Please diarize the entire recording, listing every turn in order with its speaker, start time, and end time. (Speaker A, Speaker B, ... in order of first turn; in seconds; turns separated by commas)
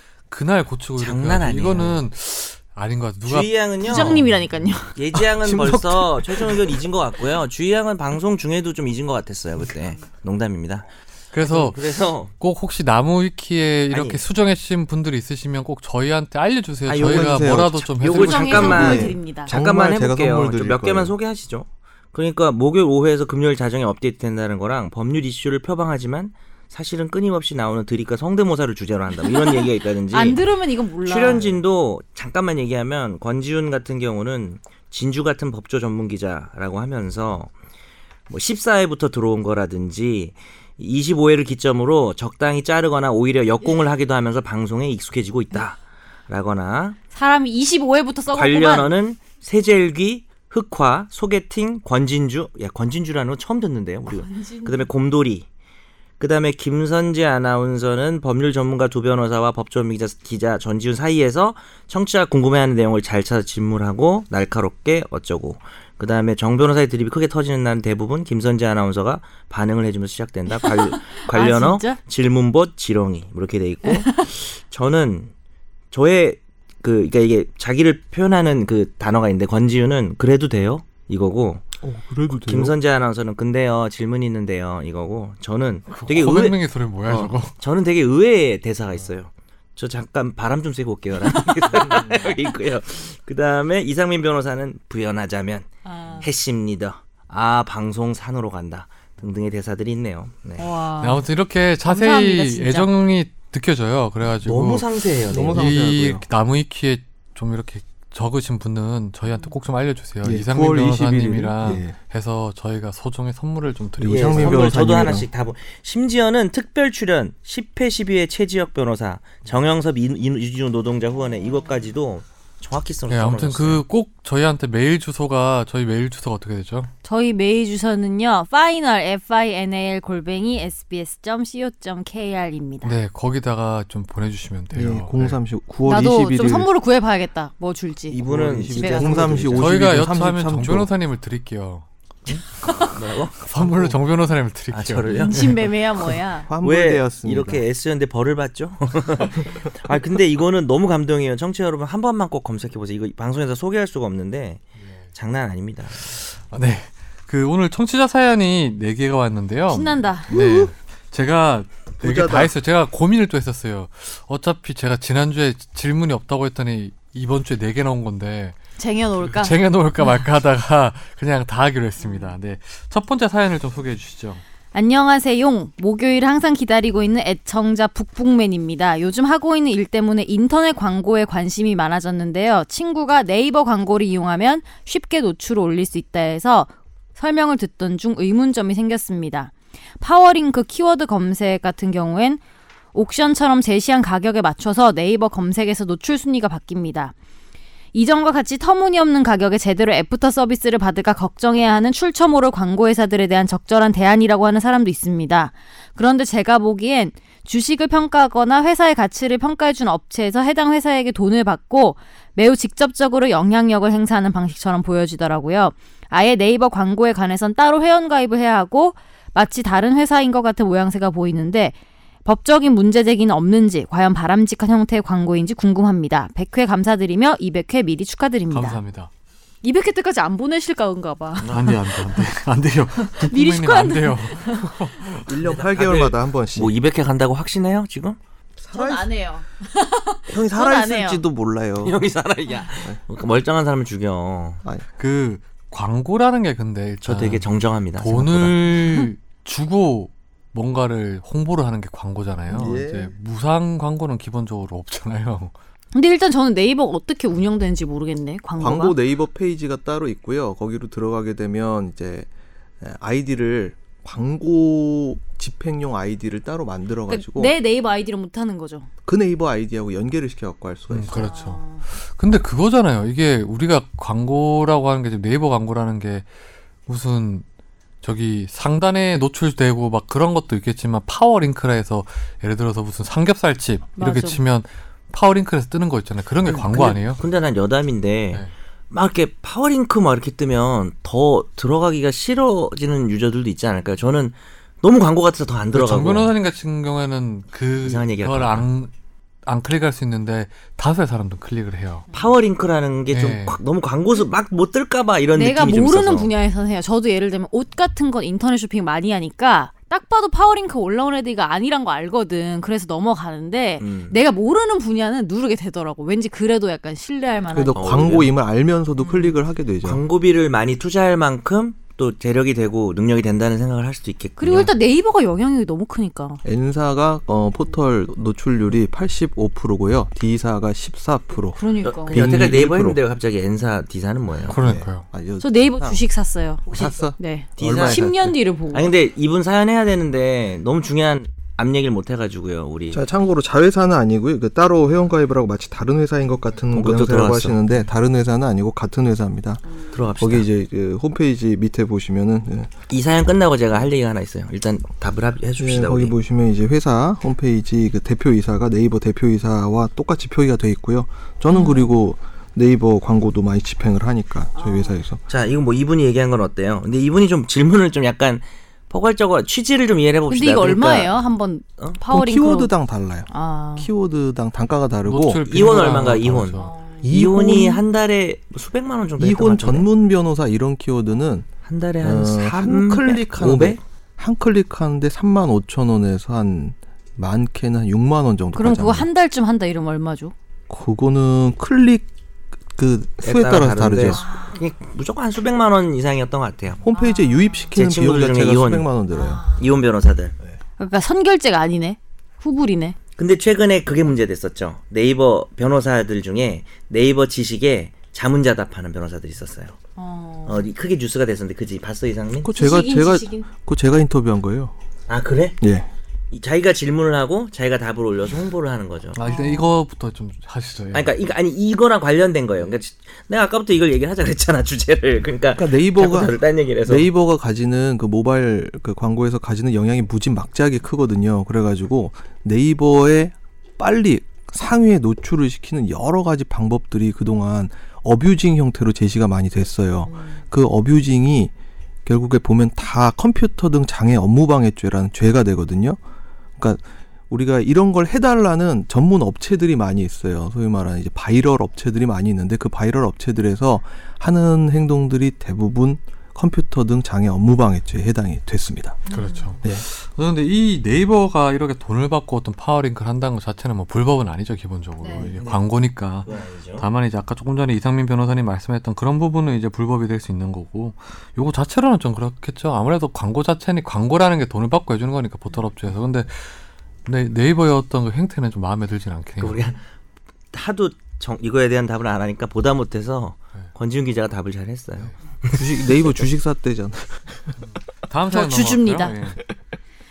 Speaker A: 0.3-4.6, Speaker B: 1.0-2.0, Speaker B: 3.2-4.2, Speaker C: 3.8-5.0, Speaker B: 4.9-12.3, Speaker D: 5.1-6.8, Speaker A: 11.3-19.0, Speaker B: 13.9-14.2, Speaker B: 16.9-30.4, Speaker D: 16.9-21.1, Speaker C: 18.1-19.5, Speaker C: 29.2-31.5, Speaker B: 31.0-37.5, Speaker B: 38.3-47.0, Speaker C: 47.1-48.9, Speaker B: 48.3-55.5, Speaker C: 54.0-54.9, Speaker B: 56.2-75.3, Speaker C: 70.6-72.0, Speaker C: 73.8-74.2, Speaker B: 75.9-81.7, Speaker D: 81.8-82.7, Speaker B: 82.3-100.7, Speaker A: 85.9-87.5, Speaker C: 95.8-96.3, Speaker C: 100.6-101.2, Speaker A: 101.0-104.9, Speaker C: 101.8-102.9, Speaker B: 104.4-105.6, Speaker D: 105.3-106.2, Speaker A: 105.5-115.1, Speaker D: 110.2-112.0, Speaker D: 114.0-115.3, Speaker B: 114.1-123.8, Speaker A: 123.1-126.9, Speaker C: 127.0-132.9, Speaker A: 132.8-135.4, Speaker D: 134.7-136.7, Speaker C: 135.8-138.2, Speaker B: 138.1-139.8, Speaker D: 138.2-140.9, Speaker C: 138.7-139.2, Speaker A: 139.6-141.8, Speaker C: 142.6-142.9, Speaker B: 142.9-143.3, Speaker A: 143.4-145.3, Speaker D: 143.5-143.9, Speaker B: 144.7-145.6, Speaker C: 145.1-146.5, Speaker D: 146.4-147.6, Speaker B: 146.6-154.6, Speaker B: 155.1-156.1, Speaker A: 156.0-168.6, Speaker C: 159.7-160.3, Speaker D: 160.3-160.7, Speaker D: 162.0-162.5, Speaker C: 168.8-169.5, Speaker A: 169.3-174.4, Speaker C: 172.0-172.3, Speaker C: 174.7-192.4, Speaker C: 192.9-197.1, Speaker C: 197.9-228.8, Speaker A: 228.5-229.1, Speaker C: 229.6-232.3, Speaker A: 231.4-235.4, Speaker C: 233.0-234.8, Speaker D: 235.2-236.8, Speaker B: 235.4-238.2, Speaker D: 238.6-239.1, Speaker C: 238.7-241.2, Speaker D: 240.3-242.0, Speaker B: 241.8-244.6, Speaker A: 245.0-255.5, Speaker B: 247.0-248.6, Speaker D: 252.5-253.1, Speaker C: 255.9-259.0, Speaker D: 258.6-262.3, Speaker D: 262.8-267.5, Speaker C: 267.1-268.9, Speaker D: 269.0-271.3, Speaker A: 270.9-276.2, Speaker C: 271.1-271.8, Speaker A: 276.9-277.4, Speaker A: 278.0-287.2, Speaker C: 284.0-284.4, Speaker B: 286.4-296.3, Speaker A: 295.7-298.9, Speaker B: 297.8-298.6, Speaker A: 299.4-302.1, Speaker C: 302.1-302.3, Speaker B: 302.1-306.3, Speaker A: 303.1-303.6, Speaker C: 305.3-317.8, Speaker B: 313.8-314.2, Speaker D: 317.5-320.0, Speaker B: 317.7-318.3, Speaker C: 319.0-319.4, Speaker B: 319.8-324.7, Speaker C: 324.4-326.4, Speaker D: 326.4-333.0, Speaker C: 331.5-332.2, Speaker B: 331.8-334.6, Speaker A: 334.4-335.1, Speaker D: 334.6-335.9, Speaker C: 335.4-336.6, Speaker B: 336.7-337.0, Speaker D: 336.7-338.3, Speaker C: 337.2-338.9, Speaker B: 337.6-338.2, Speaker B: 338.7-343.0, Speaker D: 342.9-349.6, Speaker B: 346.7-347.6, Speaker B: 349.9-350.4, Speaker D: 350.2-352.7, Speaker B: 352.9-356.1, Speaker D: 355.6-365.2, Speaker C: 361.5-361.9, Speaker C: 364.5-365.0, Speaker B: 365.3-371.1, Speaker C: 370.3-372.7, Speaker D: 372.1-375.4, Speaker C: 373.3-373.9, Speaker A: 375.0-376.7, Speaker B: 375.4-379.9, Speaker C: 376.6-377.1, Speaker D: 377.0-377.8, Speaker D: 379.2-381.5, Speaker B: 381.6-383.8, Speaker D: 382.0-389.1, Speaker C: 388.6-390.3, Speaker D: 390.7-392.1, Speaker D: 392.7-394.2, Speaker B: 393.2-396.8, Speaker C: 394.1-394.6, Speaker D: 396.8-399.4, Speaker C: 396.9-397.7, Speaker B: 397.7-398.9, Speaker C: 399.1-399.7, Speaker B: 399.6-400.4, Speaker C: 400.8-402.9, Speaker B: 403.2-409.8, Speaker C: 409.9-410.6, Speaker B: 410.4-412.5, Speaker D: 412.4-414.7, Speaker C: 412.5-413.5, Speaker B: 415.1-415.6, Speaker D: 415.6-415.9, Speaker B: 416.3-419.2, Speaker A: 419.1-421.1, Speaker C: 419.2-419.7, Speaker B: 420.9-427.1, Speaker D: 425.6-441.5, Speaker C: 440.1-440.4, Speaker D: 442.0-446.0, Speaker D: 446.6-459.0, Speaker C: 459.1-459.6, Speaker A: 459.1-479.6, Speaker C: 465.0-465.3, Speaker B: 465.2-465.6, Speaker B: 466.2-466.8, Speaker B: 479.4-479.9, Speaker B: 480.5-485.7, Speaker D: 485.5-487.5, Speaker A: 488.0-489.4, Speaker C: 488.3-489.2